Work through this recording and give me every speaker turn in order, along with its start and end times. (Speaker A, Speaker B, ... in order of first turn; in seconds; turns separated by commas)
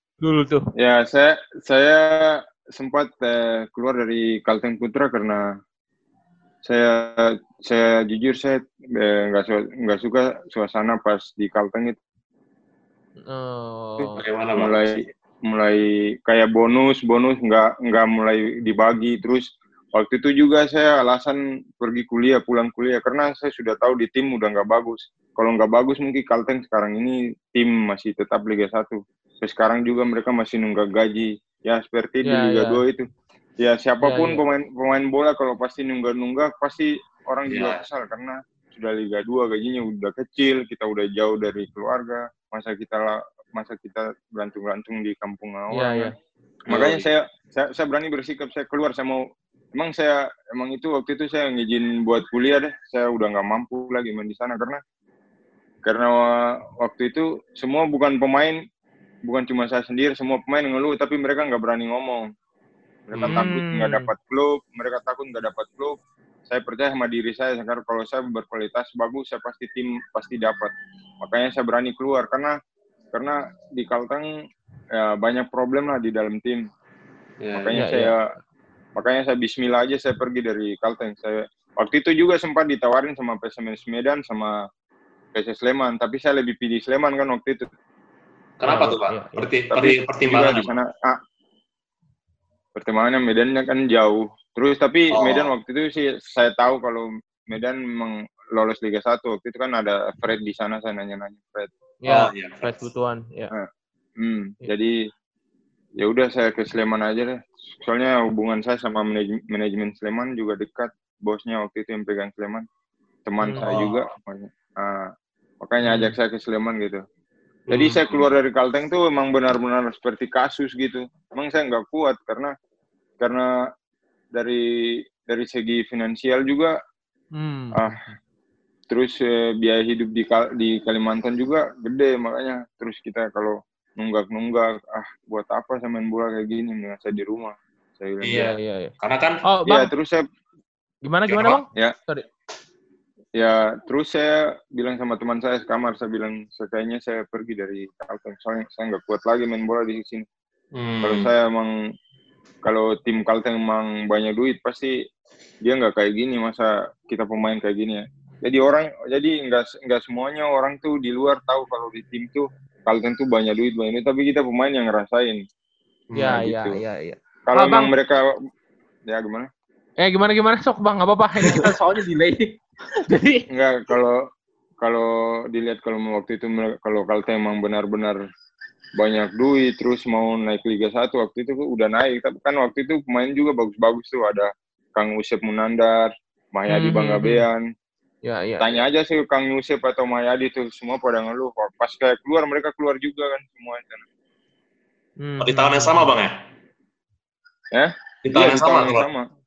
Speaker A: 0.2-0.7, Speaker B: 0.8-5.5, Speaker B: 6.6-12.0, Speaker A: 13.2-14.2, Speaker B: 14.0-33.0, Speaker C: 14.2-14.8, Speaker A: 32.2-32.8, Speaker B: 33.6-46.1, Speaker A: 34.0-34.4, Speaker C: 37.5-37.8, Speaker A: 45.7-46.1, Speaker C: 46.7-47.1, Speaker B: 46.7-54.8, Speaker B: 55.8-58.6, Speaker B: 59.2-62.3, Speaker B: 63.1-72.6, Speaker C: 63.1-63.4, Speaker A: 63.3-64.1, Speaker B: 73.1-74.3, Speaker B: 74.9-76.7, Speaker C: 77.4-77.8, Speaker B: 77.5-78.2, Speaker A: 77.7-78.2, Speaker B: 78.9-84.6, Speaker B: 85.3-87.7, Speaker C: 88.6-90.7, Speaker A: 88.6-89.4, Speaker B: 89.7-91.2, Speaker B: 92.8-101.7, Speaker C: 95.1-95.5, Speaker A: 102.0-103.5, Speaker C: 102.1-102.8, Speaker B: 103.5-105.0, Speaker B: 106.0-112.7, Speaker B: 113.3-115.1, Speaker A: 113.4-113.7, Speaker C: 113.6-114.1, Speaker B: 115.6-117.0, Speaker C: 115.8-116.1, Speaker C: 117.7-118.3, Speaker B: 117.7-122.5, Speaker B: 123.2-123.5, Speaker B: 124.3-126.8, Speaker A: 127.3-128.1, Speaker B: 128.9-138.5, Speaker C: 138.2-139.4, Speaker A: 138.3-138.9, Speaker A: 139.4-139.9, Speaker B: 139.7-140.2, Speaker A: 141.0-142.2, Speaker C: 141.3-141.6, Speaker B: 143.4-150.2, Speaker C: 150.7-151.3, Speaker B: 151.0-151.7, Speaker B: 152.6-155.0, Speaker B: 155.6-165.4, Speaker C: 166.1-166.4, Speaker A: 166.2-167.9, Speaker B: 166.2-166.8, Speaker B: 167.5-168.3, Speaker B: 169.1-169.5, Speaker A: 170.0-173.4, Speaker B: 173.5-174.2, Speaker B: 174.8-178.2, Speaker B: 179.0-187.6, Speaker A: 186.7-187.4, Speaker A: 188.2-188.8, Speaker B: 188.6-194.0, Speaker A: 195.2-196.1, Speaker C: 195.4-196.3, Speaker B: 197.7-199.2, Speaker C: 198.2-199.1